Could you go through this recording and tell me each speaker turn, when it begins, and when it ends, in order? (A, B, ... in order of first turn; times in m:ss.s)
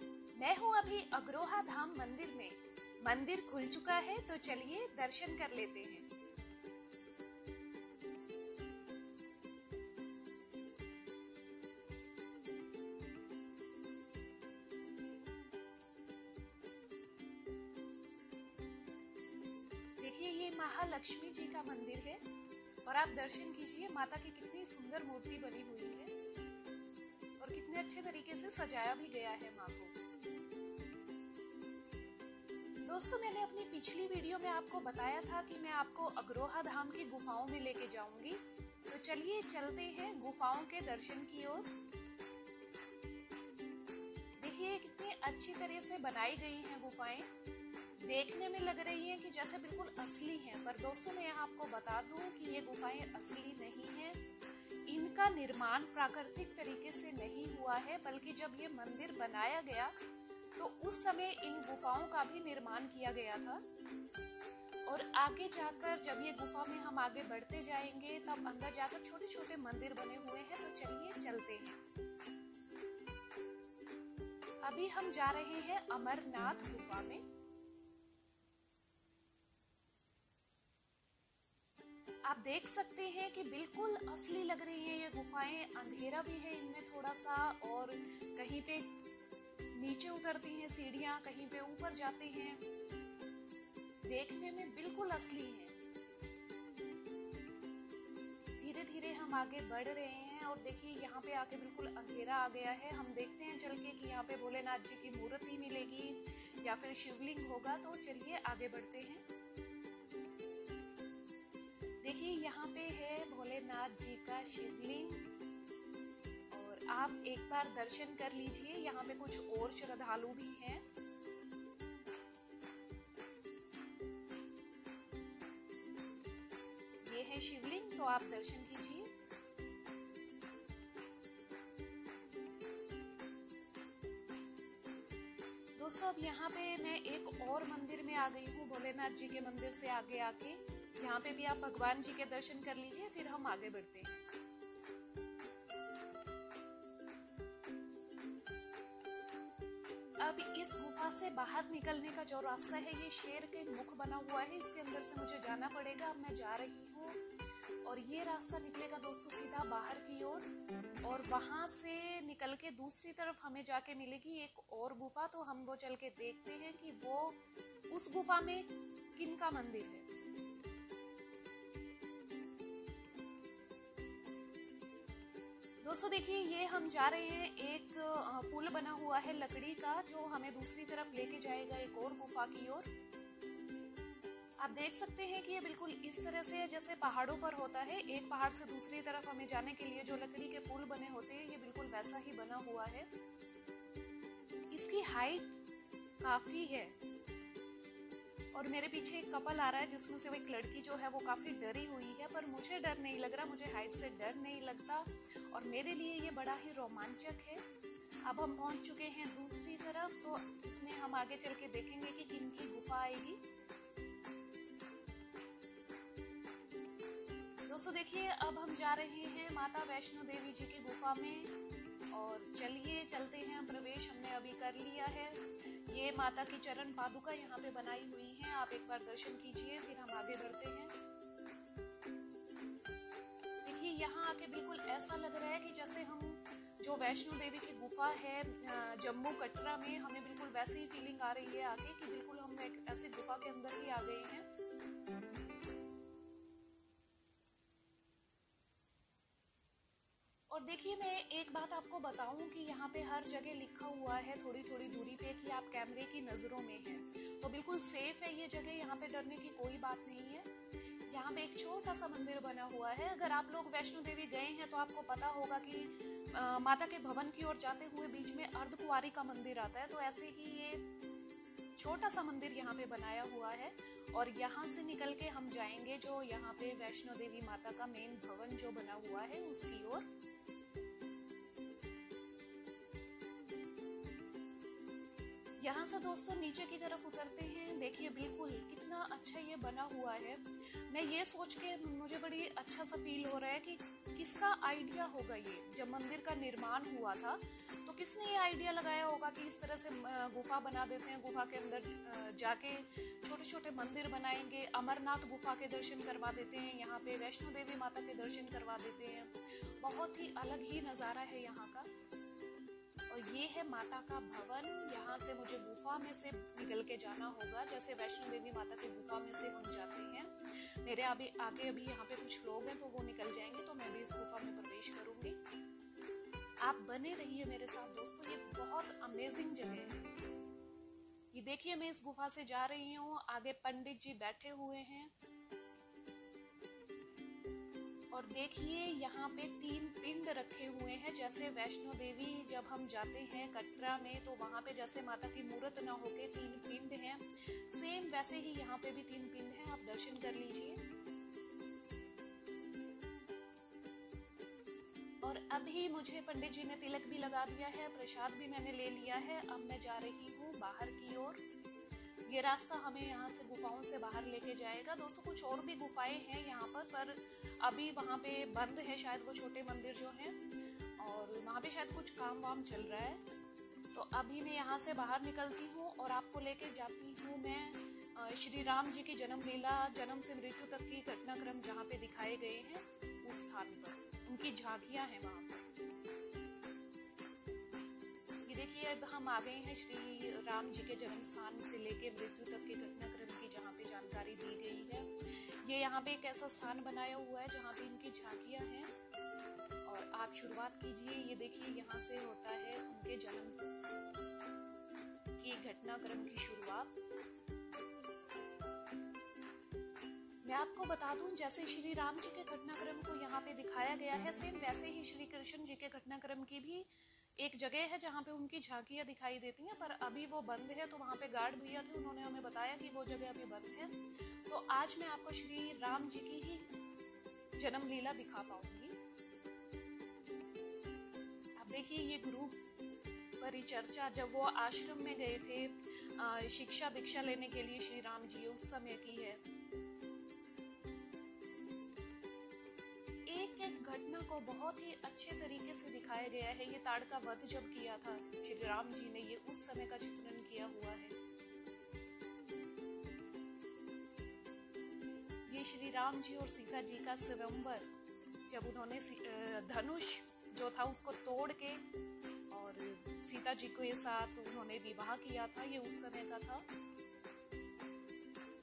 0:00.4-0:06.1 A
0:20.0-0:22.2 A
0:22.8-0:26.1 A
0:27.4-0:30.0 A
0:32.8-0:41.7 A
0:44.4-0:47.3 A
0:48.0-0:54.2 A
0:54.9-1:00.0 A
1:00.6-1:03.6 A
1:04.9-1:11.8 A
1:14.6-1:17.2 A
1:22.2-1:28.9 A
1:29.7-1:32.6 A
1:34.0-1:35.8 A
1:38.6-1:49.2 A
1:52.0-1:55.3 A
1:56.5-2:00.8 A
2:07.0-2:09.1 A
2:15.8-2:24.3 A
2:30.2-2:40.5 A
2:41.0-2:50.1 A
2:55.8-3:02.9 A
3:04.6-3:13.1 A
3:14.7-3:15.6 A
3:16.2-3:17.0 A
3:18.5-3:27.6 A
3:28.2-3:33.4 A
3:37.7-3:41.5 A
3:42.1-3:51.0 A
3:53.6-4:04.5 A
4:10.5-4:30.8 A
4:31.8-4:40.1 A
4:45.6-5:11.9 A
5:13.1-5:25.4 A
5:26.6-5:30.0 A
5:31.3-5:35.1 A
5:38.1-5:50.8 A
5:55.2-6:01.4 A
6:02.3-6:10.4 A
6:11.0-6:13.2 A
6:13.9-6:25.7 A
6:28.4-6:38.9 A
6:39.8-6:43.8 A
6:45.4-6:47.0 A
6:50.4-7:06.7 A
7:07.6-7:09.0 A
7:11.6-7:12.6 A
7:13.4-7:19.4 A
7:23.3-7:31.2 A
7:35.5-7:37.9 A
7:38.5-7:41.8 A
7:42.5-7:46.7 A